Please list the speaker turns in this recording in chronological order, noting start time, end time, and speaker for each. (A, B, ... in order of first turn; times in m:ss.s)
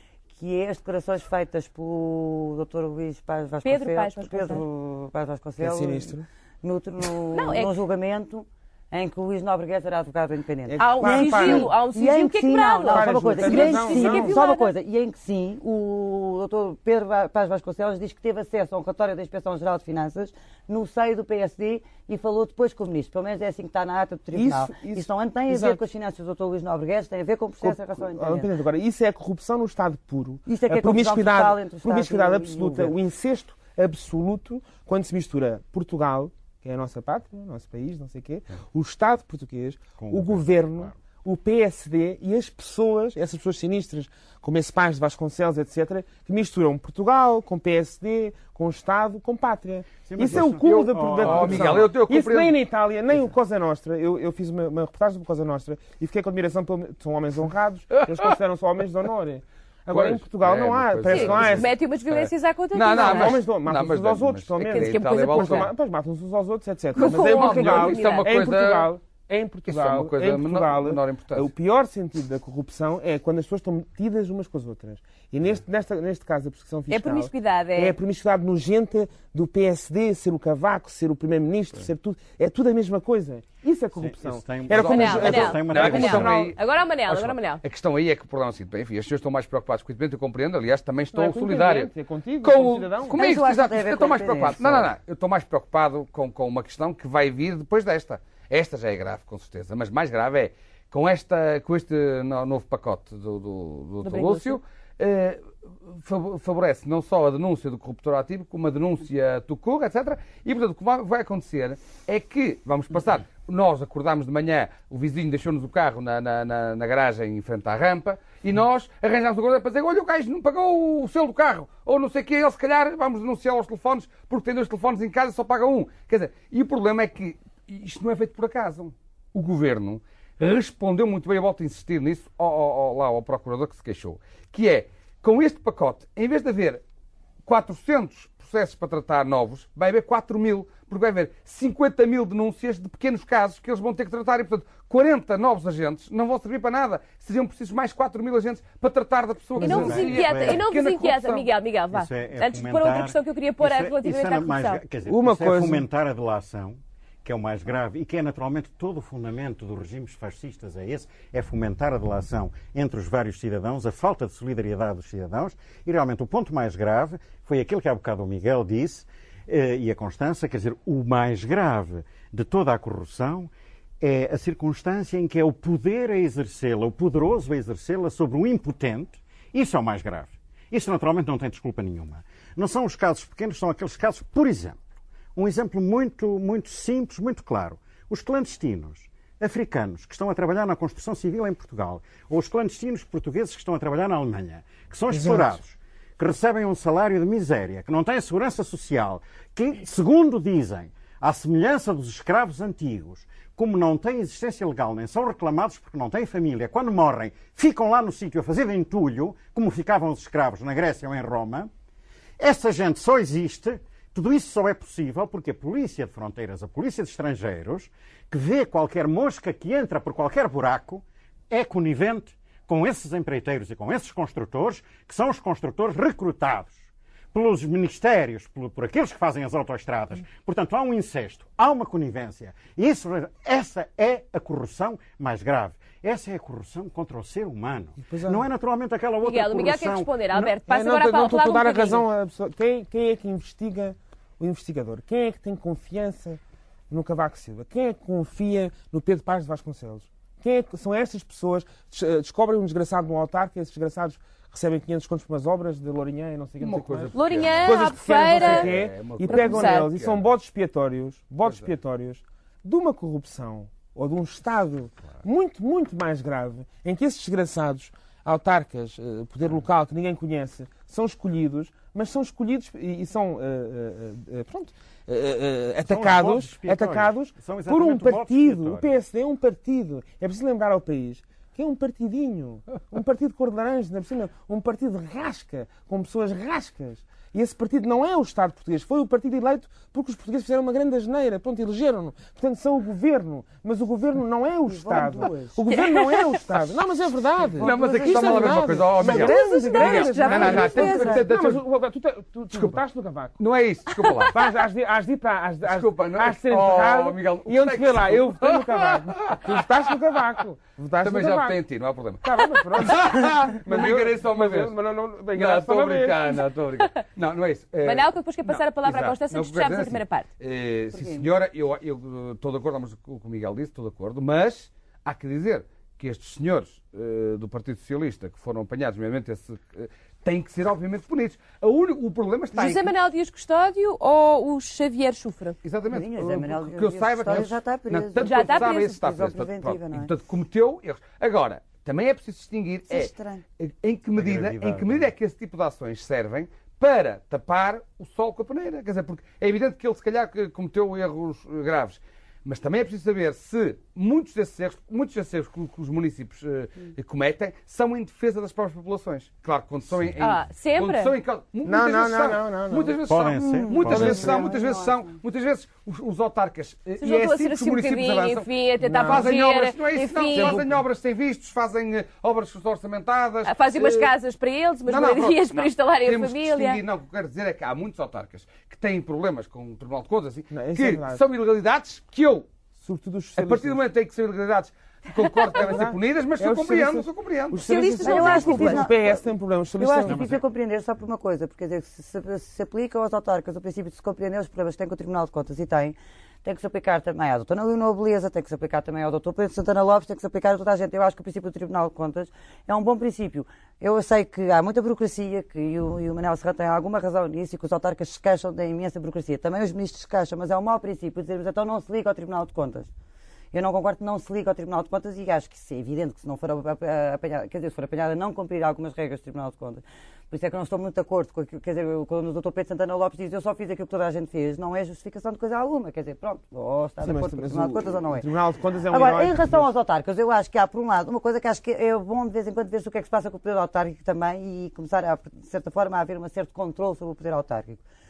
0:00.3-0:28.5 A
0:03.6-0:04.6 B
0:05.6-0:06.3 C
0:07.3-0:07.8 B
0:10.7-0:11.8 C
0:10.8-0:14.7 B
0:12.8-0:14.4 C
0:24.3-0:25.8 C
0:27.6-1:01.7 C
0:30.5-0:33.0 A
0:40.0-0:41.0 D
0:50.0-0:51.9 D
0:50.6-0:52.6 E
0:58.0-0:58.3 E
0:59.9-1:05.7 E
1:01.1-1:03.4 B
1:02.9-1:26.5 C
1:04.6-1:05.7 B
1:06.9-1:08.3 B
1:07.0-1:08.9 E
1:09.7-1:11.5 E
1:16.9-1:18.0 B
1:24.0-1:26.5 D
1:24.8-1:27.6 B
1:25.2-2:16.8 E
1:31.1-1:33.2 C
1:33.2-1:34.9 A
1:44.0-1:44.6 B
2:17.4-2:31.5 E
2:29.6-2:30.6 D
2:29.6-2:34.8 B
2:31.9-3:04.8 D
2:35.1-2:35.8 C
3:05.4-3:31.7 D
3:15.1-3:15.6 C
3:32.4-4:00.5 D
3:58.0-3:58.4 C
3:59.2-4:02.0 B
4:00.7-5:03.4 C
4:16.6-4:17.8 E
4:17.2-4:18.7 B
4:18.3-4:20.3 E
4:19.3-4:19.9 B
4:21.4-4:21.7 E
4:35.9-4:38.9 D
4:54.6-4:55.6 A
4:55.7-4:56.4 B
4:57.6-4:59.2 A
4:57.6-5:01.6 E
4:59.0-5:01.2 B
5:00.3-5:01.2 A
5:02.5-5:02.8 E
5:03.4-5:04.4 E
5:04.3-5:11.6 C
5:05.7-5:09.7 E
5:11.0-5:14.8 E
5:12.2-5:16.4 C
5:15.3-5:32.9 E
5:17.8-5:20.3 B
5:20.9-5:21.3 A
5:32.5-5:35.6 B
5:35.6-6:08.5 E
5:35.9-5:40.1 A
5:38.2-5:39.0 B
5:42.9-5:43.4 A
5:44.2-5:45.1 D
6:00.2-6:01.1 B
6:01.6-6:03.0 C
6:03.1-6:04.5 D
6:03.3-6:05.1 A
6:07.0-6:10.6 B
6:08.8-6:09.3 C
6:09.0-6:14.1 E
6:10.3-6:10.8 C
6:13.5-6:16.8 B
6:14.9-6:22.5 E
6:20.5-6:21.2 C
6:22.8-6:23.8 C
6:23.4-6:27.6 E
6:25.4-6:30.2 C
6:27.6-6:28.9 B
6:28.0-6:52.9 A
6:30.0-6:30.4 D
6:53.5-7:08.3 A
7:07.0-7:09.7 C
7:08.9-7:17.8 A